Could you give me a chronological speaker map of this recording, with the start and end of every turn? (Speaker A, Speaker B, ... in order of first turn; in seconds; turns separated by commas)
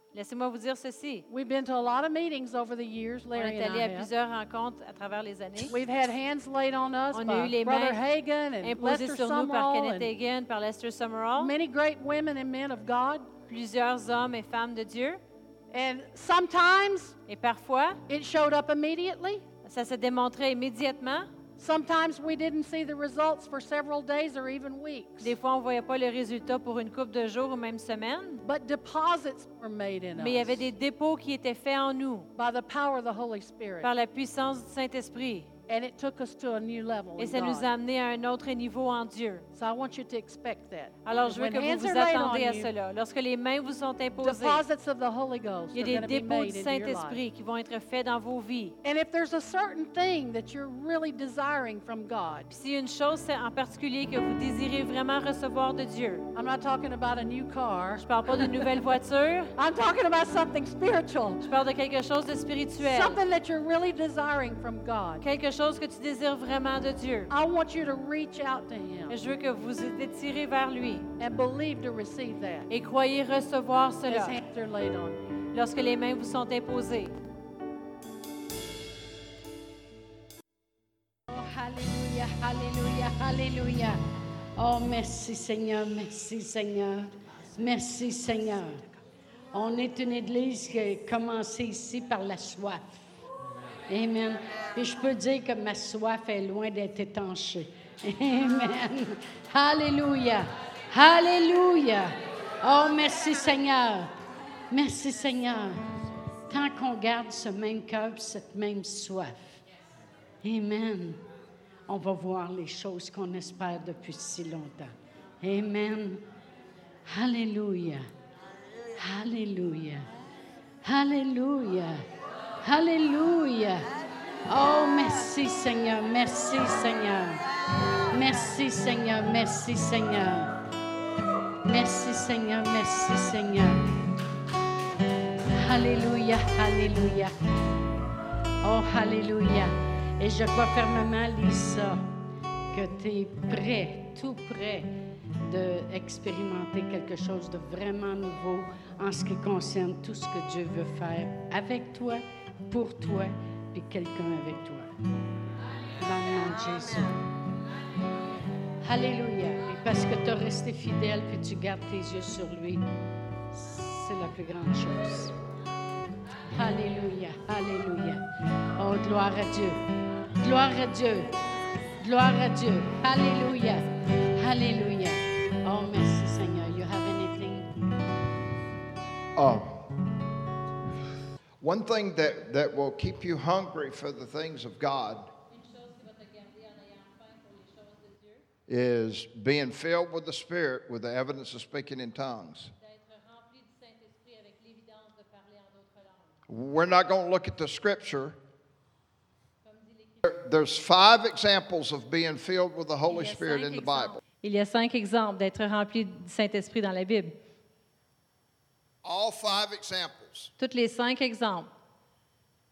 Speaker A: 0.1-1.3, Speaker B: 1.3-4.1, Speaker A: 3.4-5.7, Speaker B: 5.7-10.1, Speaker A: 7.1-8.0, Speaker A: 8.6-11.5, Speaker B: 11.4-13.3, Speaker A: 13.5-15.2, Speaker B: 15.7-17.2, Speaker A: 17.3-18.0, Speaker B: 18.1-19.4, Speaker A: 19.6-21.3, Speaker B: 21.6-25.4, Speaker A: 25.2-28.4, Speaker B: 28.4-30.6, Speaker A: 30.2-32.3, Speaker B: 32.4-33.9, Speaker A: 33.8-35.5, Speaker B: 35.7-37.7, Speaker A: 37.2-39.5, Speaker B: 39.5-42.7, Speaker A: 41.0-44.6, Speaker B: 44.2-47.2, Speaker A: 45.7-48.8, Speaker B: 48.8-52.5, Speaker A: 52.5-56.3, Speaker B: 56.3-58.8, Speaker A: 58.0-59.5, Speaker B: 59.6-61.5, Speaker A: 61.4-63.2, Speaker B: 62.8-65.2, Speaker A: 65.2-67.3, Speaker B: 67.3-69.2, Speaker A: 69.1-71.1, Speaker B: 71.2-72.7, Speaker A: 72.7-74.4, Speaker B: 74.1-75.2, Speaker A: 75.5-77.2, Speaker C: 81.3-84.0, Speaker C: 84.6-88.8, Speaker C: 89.5-93.0, Speaker C: 93.9-104.1, Speaker C: 104.7-105.8, Speaker C: 106.5-109.6, Speaker C: 110.4-111.2, Speaker C: 111.9-116.3, Speaker C: 117.1-118.1, Speaker C: 119.0-120.1, Speaker C: 120.8-122.0, Speaker C: 122.6-123.9, Speaker C: 124.5-127.5, Speaker C: 128.1-130.6, Speaker C: 131.6-133.9, Speaker C: 135.6-137.3, Speaker C: 138.6-142.1, Speaker C: 142.7-154.9, Speaker C: 156.0-157.2, Speaker C: 158.8-162.9, Speaker C: 163.5-165.3, Speaker C: 166.5-171.4, Speaker C: 172.0-177.7, Speaker D: 179.4-179.8, Speaker D: 181.6-185.3, Speaker A: 185.5-188.4, Speaker D: 188.7-192.7, Speaker A: 192.8-196.3, Speaker D: 196.5-198.4, Speaker A: 199.7-200.2, Speaker D: 200.2-204.2, Speaker A: 203.1-207.3, Speaker D: 209.0-210.5, Speaker A: 210.6-211.7